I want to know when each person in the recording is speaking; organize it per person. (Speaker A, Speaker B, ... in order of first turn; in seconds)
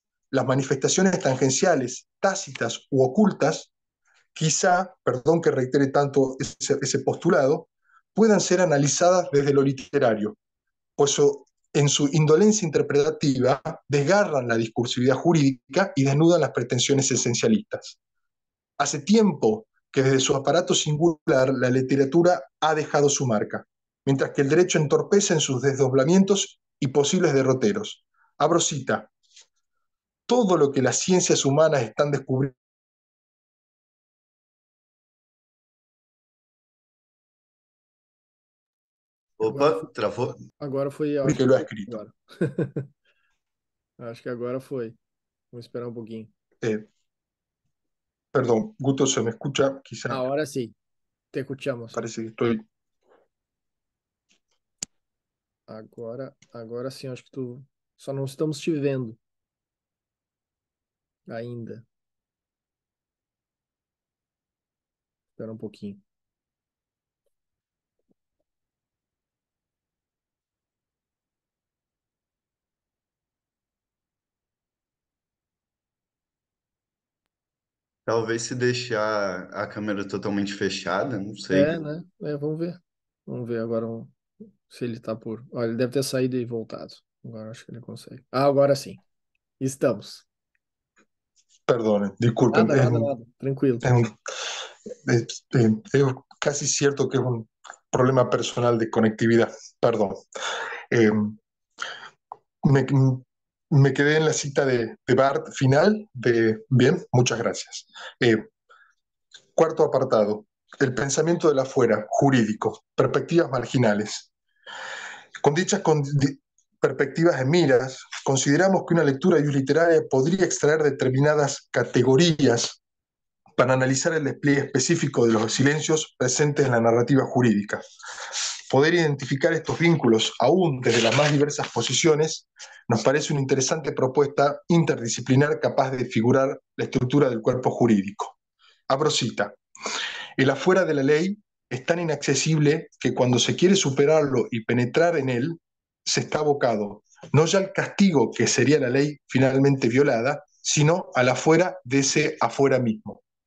Speaker A: 0.3-3.7, 4.3-10.4, 11.0-18.0, 18.8-29.1, 30.3-32.5, 41.2-42.0, 46.6-46.9, 48.3-50.2, 51.9-52.6, 91.7-93.1, 93.8-94.1, 95.0-100.2, 100.9-101.3, 102.6-108.5, 109.5-114.3, 115.4-122.8, 123.6-127.8, 128.7-138.4, 138.9-139.6, 140.4-153.2
Speaker B: 39.4-40.4, 78.1-81.8
Speaker C: 39.5-39.9, 40.4-42.9, 44.0-45.0, 45.5-46.3, 50.1-50.8, 51.3-52.0, 55.7-59.2, 61.3-61.9, 65.4-66.0, 81.5-84.1, 84.7-89.0, 89.6-90.3, 92.5-94.0